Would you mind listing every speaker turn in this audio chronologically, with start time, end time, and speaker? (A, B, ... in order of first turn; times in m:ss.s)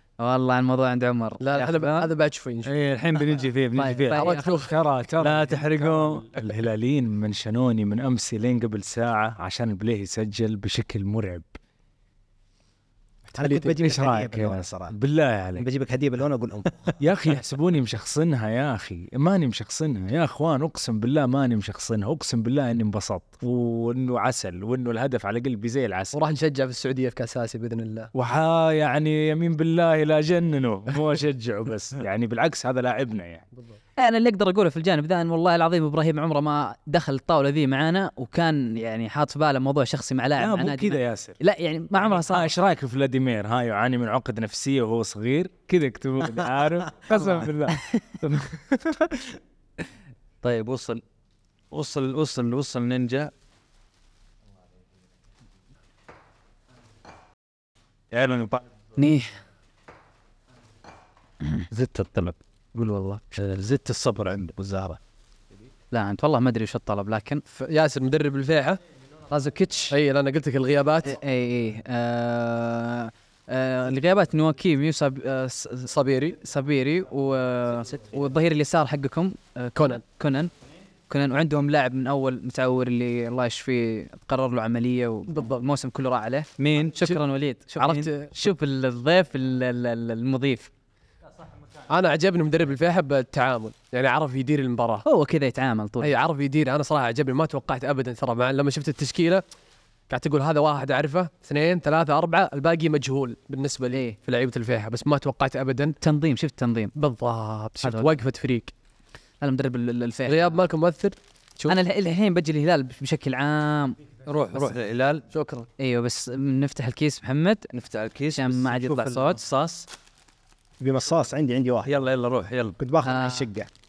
0:00.2-0:02.1 A
0:01.4-0:02.7 B
0:02.6-0:04.2 C
0:03.8-0:04.7 A
0:04.1-0:04.7 B
0:04.4-0:11.4 D
0:05.2-0:06.2 C
0:13.3-0:15.6 D
0:13.3-0:14.9 E
0:15.6-0:17.0 E
0:17.0-0:26.2 D
0:26.1-0:28.1 B
0:28.1-0:33.4 D
0:34.0-0:42.5 A
0:40.4-0:41.4 D
0:42.0-0:49.2 D
0:50.4-0:51.0 C
0:51.7-0:53.3 C
0:58.1-0:58.6 C
0:59.0-0:59.3 A
1:01.7-1:02.4 C
1:03.3-1:04.6 C
1:04.6-1:05.0 E
1:05.9-1:07.4 A
1:07.5-1:08.8 B
1:09.3-1:09.9 A
1:09.9-1:11.2 B
1:11.0-1:20.5 A
1:15.9-1:16.3 B
1:19.8-1:20.0 B
1:21.1-1:30.7 A
1:26.6-1:27.0 C
1:27.8-1:28.3 B
1:31.9-1:35.0 B
1:35.0-1:36.1 A
1:36.0-1:39.4 B
1:40.1-1:46.0 B
1:43.9-1:44.2 A
1:46.0-1:46.9 A
1:47.0-1:48.7 B
1:47.8-1:48.1 A
1:49.4-1:50.5 A
1:50.2-1:51.8 B
1:51.7-1:54.0 A
1:54.2-1:55.2 C
1:55.3-1:55.7 B
1:55.8-1:57.7 A
1:57.7-1:59.9 C
1:58.3-1:59.4 A
2:00.8-2:01.9 E
2:01.8-2:02.8 C
2:02.8-2:03.7 E
2:03.0-2:03.5 A